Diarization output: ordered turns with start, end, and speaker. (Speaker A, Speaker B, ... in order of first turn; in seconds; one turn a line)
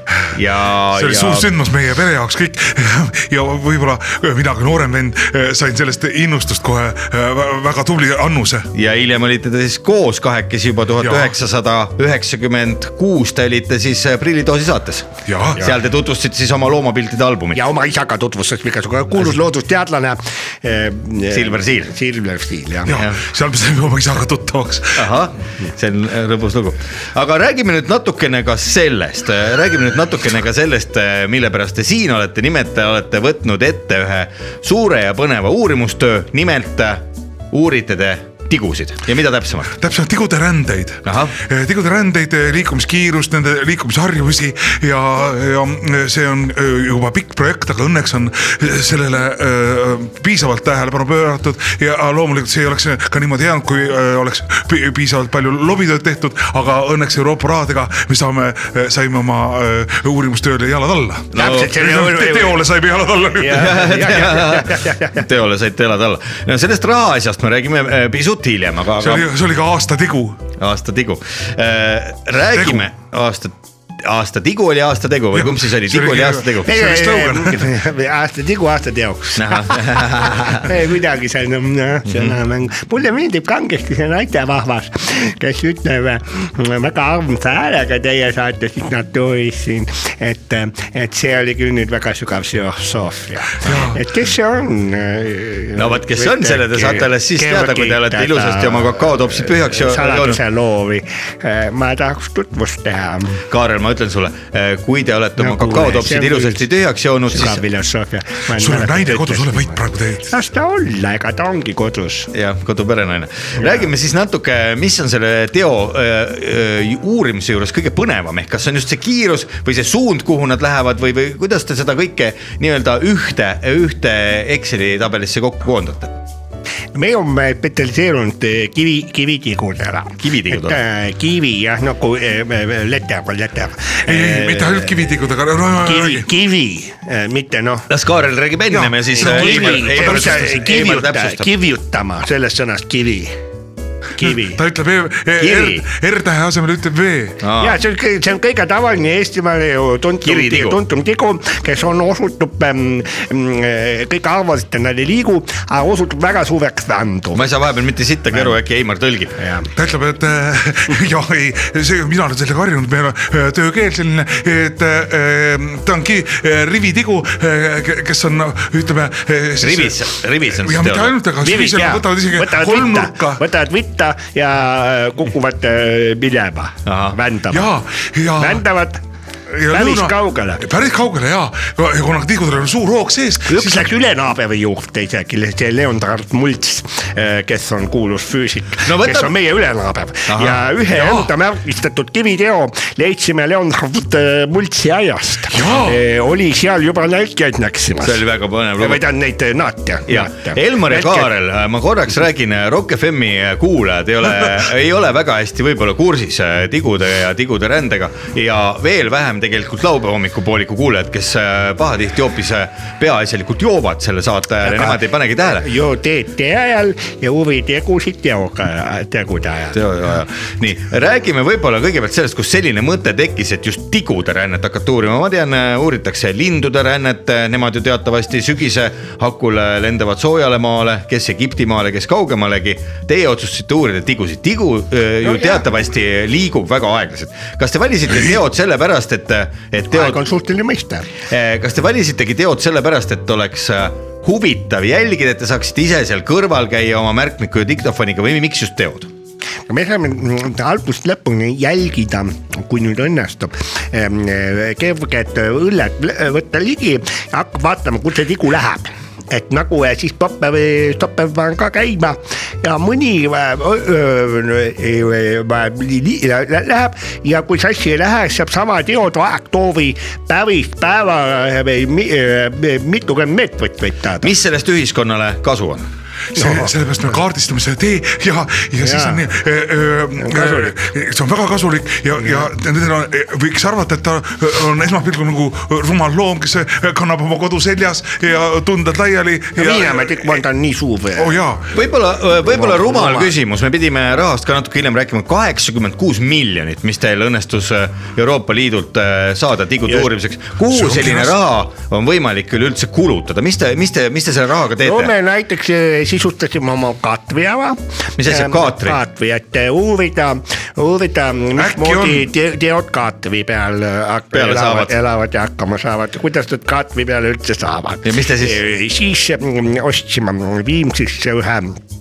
Speaker A: 0.3-1.5
Speaker B: 0.9-8.7
Speaker A: 8.7-17.6
Speaker B: 11.0-11.3
Speaker B: 15.2-15.7
Speaker C: 17.5-23.0
Speaker A: 21.3-21.9
Speaker B: 22.9-25.1
Speaker A: 22.9-23.2
Speaker A: 24.9-39.7
Speaker B: 39.7-64.0
Speaker A: 41.0-41.4
Speaker A: 61.3-61.7
Speaker C: 61.3-62.7
Speaker C: 63.4-65.2
Speaker A: 63.5-69.3
Speaker B: 69.0-70.5
Speaker A: 70.6-77.0
Speaker B: 72.5-72.8
Speaker B: 75.3-77.7
Speaker C: 76.6-103.4
Speaker A: 79.3-80.7
Speaker A: 82.0-82.4
Speaker B: 93.6-94.0
Speaker A: 95.7-100.4
Speaker A: 103.5-107.6
Speaker C: 105.4-106.7
Speaker C: 107.3-112.3
Speaker B: 108.5-110.3
Speaker A: 112.3-126.2
Speaker C: 126.9-135.0
Speaker A: 130.2-130.8
Speaker B: 134.1-136.3
Speaker C: 135.8-137.9
Speaker A: 137.9-141.5
Speaker B: 138.7-140.6
Speaker C: 139.1-143.3
Speaker C: 144.2-144.6
Speaker B: 144.2-147.4
Speaker C: 145.4-145.8
Speaker A: 147.4-147.8
Speaker C: 147.6-157.4
Speaker A: 150.2-150.8
Speaker A: 157.3-159.4
Speaker C: 159.4-159.7
Speaker B: 159.8-173.4
Speaker A: 169.6-171.2
Speaker C: 171.4-177.7
Speaker A: 176.8-177.2
Speaker B: 177.5-178.6
Speaker C: 178.4-179.0
Speaker B: 179.5-183.9
Speaker C: 179.7-180.6
Speaker C: 183.5-198.2
Speaker A: 188.8-189.3
Speaker A: 190.3-190.7
Speaker B: 190.9-191.3
Speaker B: 195.5-196.0
Speaker A: 198.0-199.0
Speaker C: 198.8-201.3
Speaker A: 200.1-215.7
Speaker C: 214.6-219.8
Speaker A: 219.7-240.2
Speaker C: 235.2-235.6
Speaker C: 239.9-241.1
Speaker A: 241.3-249.1
Speaker C: 249.7-274.3
Speaker A: 274.2-275.9
Speaker B: 276.3-290.4
Speaker C: 276.3-276.7
Speaker C: 278.8-279.2
Speaker C: 280.2-280.7
Speaker C: 289.6-291.4
Speaker B: 291.2-291.7
Speaker A: 291.7-305.1
Speaker C: 292.5-293.3
Speaker B: 300.7-301.4
Speaker C: 304.8-321.8
Speaker A: 308.2-309.0
Speaker B: 311.6-312.3
Speaker A: 314.3-314.9
Speaker A: 318.0-318.6